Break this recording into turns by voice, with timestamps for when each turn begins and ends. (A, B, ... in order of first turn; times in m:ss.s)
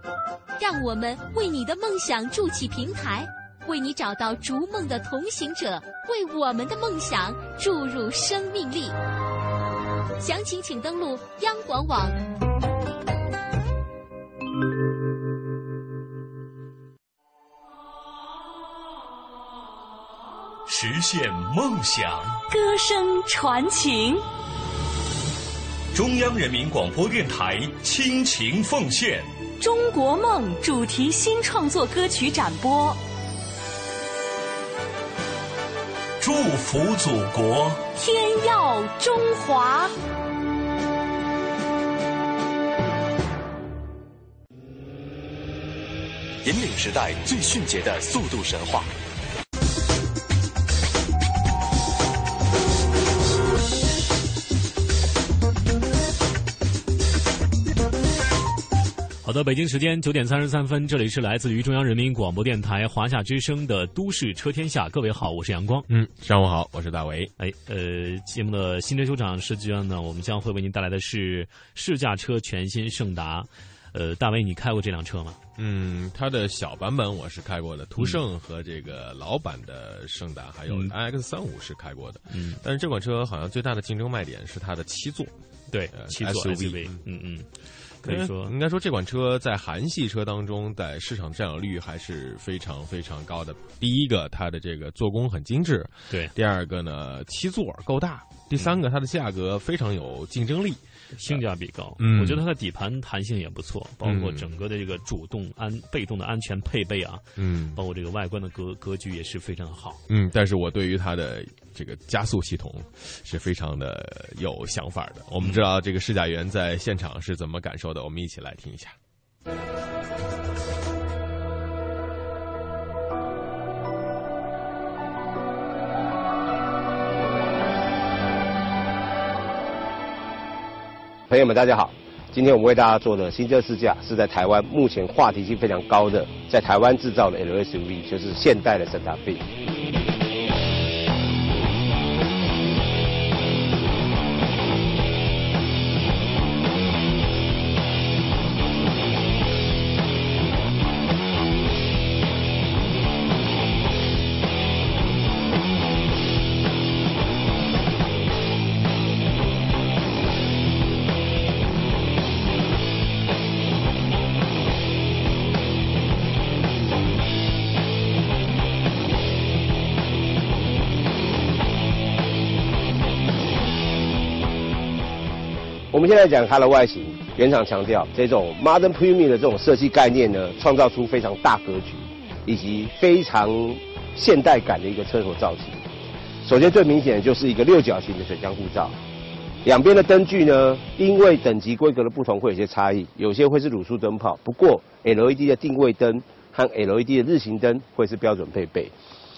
0:00.6-0:09.0 A
0:10.2-0:12.2 A
0:20.7-0:22.4 B
0:22.5-0:24.2 C
0:25.9-0:29.3 B
0:29.6-0:33.0 C
0:36.2-0:37.9 B
0:37.9-0:39.9 C
0:46.4-0:48.9 D
0:59.2-1:05.9 E
1:05.9-1:07.3 F
1:07.4-1:15.4 E
1:15.6-1:25.3 F
1:22.3-1:22.6 E
1:25.7-1:27.5 E
1:25.9-1:27.0 F
1:28.0-1:28.5 E
1:28.0-1:41.4 F
1:41.2-1:47.2 E
1:42.0-1:42.4 F
1:44.0-1:44.5 F
1:47.4-1:47.8 F
1:47.8-1:50.0 E
1:50.1-1:59.0 F
2:11.3-2:19.4 G
2:55.9-3:05.8 G
3:06.4-3:09.0 G
3:09.6-3:18.9 G